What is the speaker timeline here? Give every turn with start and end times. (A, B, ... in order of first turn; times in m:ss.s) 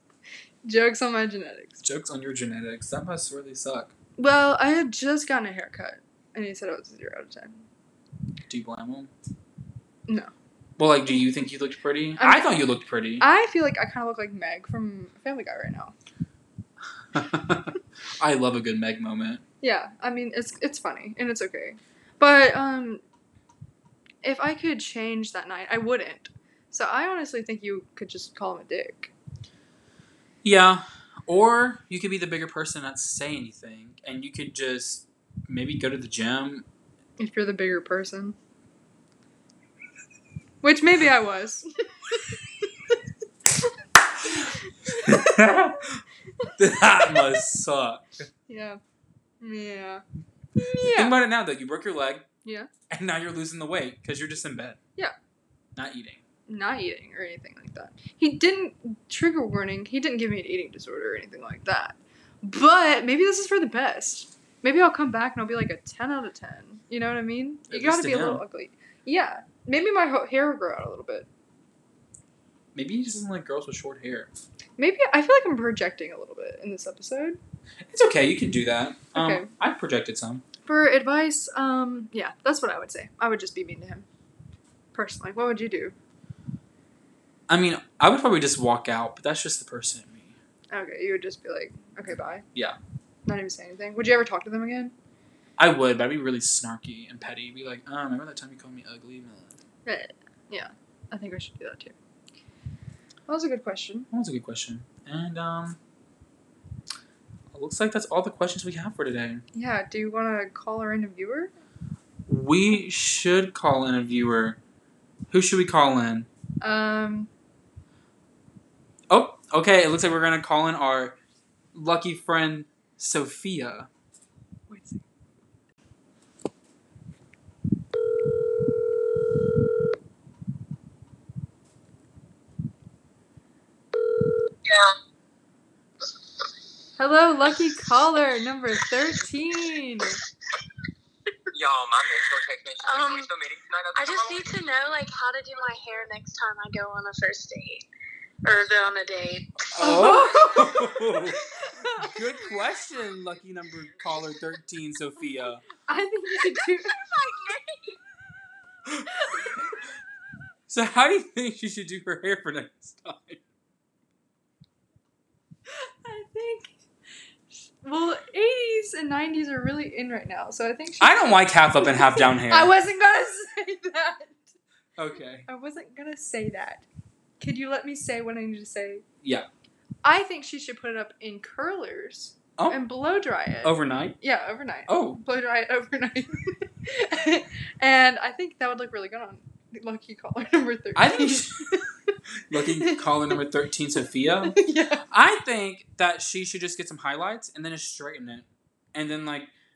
0:00.6-0:01.8 A
0:01.8-0:03.9 B
0:04.2-0:07.6 A
0:08.5-0:09.1 B
0:10.8-0:13.2 B
0:12.2-0:12.6 A
0:13.2-0:15.9 A
0:17.1-0:19.4 B
0:19.6-0:23.0 A
0:24.2-0:29.1 A
0:30.4-0:36.7 B
0:37.2-0:38.4 A
0:40.6-0:43.0 A
0:44.2-0:45.2 A
0:44.9-0:46.0 B
0:46.6-0:48.3 B
0:48.5-0:48.8 A
0:49.4-0:50.0 A
0:50.6-0:51.2 A
0:50.9-0:52.2 B
0:52.4-0:52.7 A
0:52.9-0:54.8 B
0:55.8-0:56.2 B
0:56.5-1:11.3 A
1:07.7-1:08.4 B
1:12.8-1:14.3 B
1:14.8-1:17.4 A
1:17.9-1:20.4 B
1:19.2-1:19.5 A
1:20.7-1:24.1 A
1:24.9-1:26.0 A
1:27.5-1:30.4 B
1:30.7-1:32.4 A
1:32.5-1:32.8 B
1:33.3-1:34.9 A
1:35.6-1:39.6 B
1:39.9-1:42.0 A
1:43.3-1:44.1 A
1:44.1-1:45.8 B
1:47.5-1:49.4 B
1:49.5-1:51.5 A
1:52.3-1:54.6 B
1:55.3-1:56.3 B
1:56.6-1:57.3 A
1:59.1-2:01.2 B
2:01.7-2:03.9 B
2:04.7-2:05.0 A
2:17.0-2:20.2 A
2:21.5-2:24.7 C
2:22.8-2:23.3 D
2:24.0-2:27.8 D
2:28.4-2:30.6 D
2:29.8-2:35.6 B
2:29.8-2:30.9 A
2:31.6-2:32.1 A
2:35.9-2:37.0 A
2:36.9-2:38.0 D
2:39.2-2:39.6 A
2:40.7-2:43.4 B
2:45.7-2:46.7 A
2:47.5-2:54.5 A
2:51.0-2:52.7 B
2:55.0-2:55.5 B
2:55.5-2:56.9 A
2:57.4-2:59.0 A
3:00.0-3:12.1 A
3:03.6-3:04.2 B
3:04.9-3:05.2 B
3:11.0-3:11.8 B
3:12.5-3:19.5 B
3:12.8-3:13.2 A
3:14.5-3:15.0 A